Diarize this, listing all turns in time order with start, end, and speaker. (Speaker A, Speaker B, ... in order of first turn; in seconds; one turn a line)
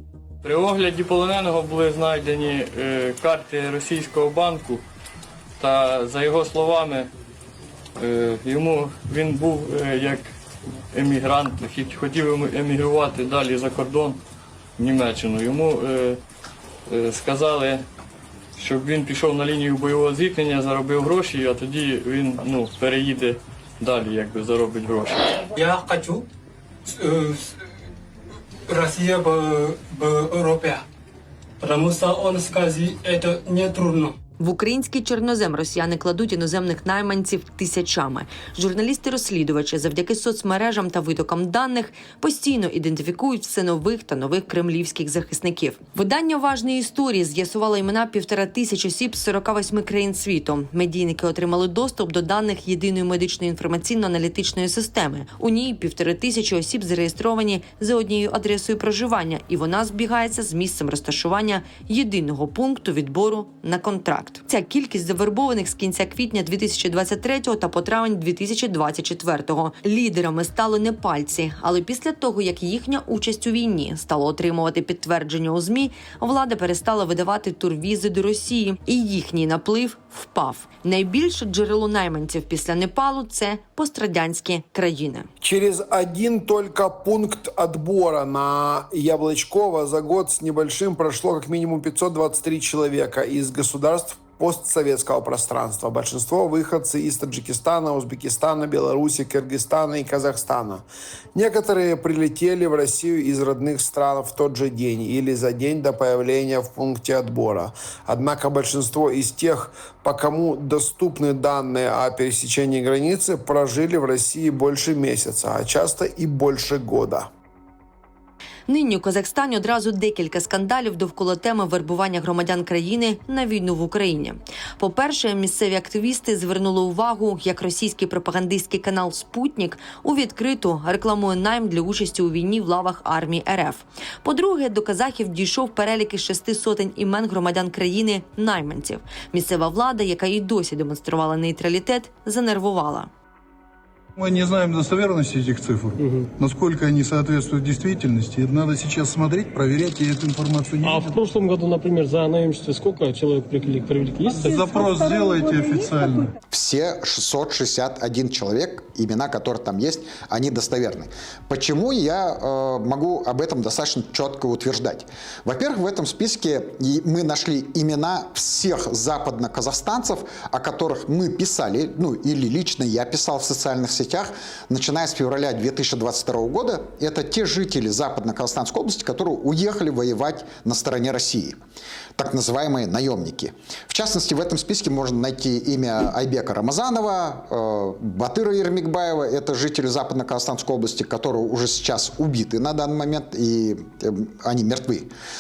Speaker A: 0.4-4.8
Speaker A: 5.6-7.1
Speaker A: 8.0-10.3
Speaker A: 10.9-14.2
Speaker A: 14.8-16.2
Speaker A: 16.9-17.8
Speaker A: 18.6-25.5
Speaker B: 25.6-26.2
Speaker B: 27.0-27.4
Speaker B: 28.7-30.8
Speaker B: 31.6-34.1
Speaker C: 34.4-85.3
Speaker D: 85.4-117.3
Speaker C: 118.7-143.1
Speaker E: 144.2-151.2
Speaker F: 146.0-146.3
Speaker F: 150.8-154.6
Speaker E: 154.3-156.3
Speaker G: 156.5-181.6
Speaker G: 182.2-195.1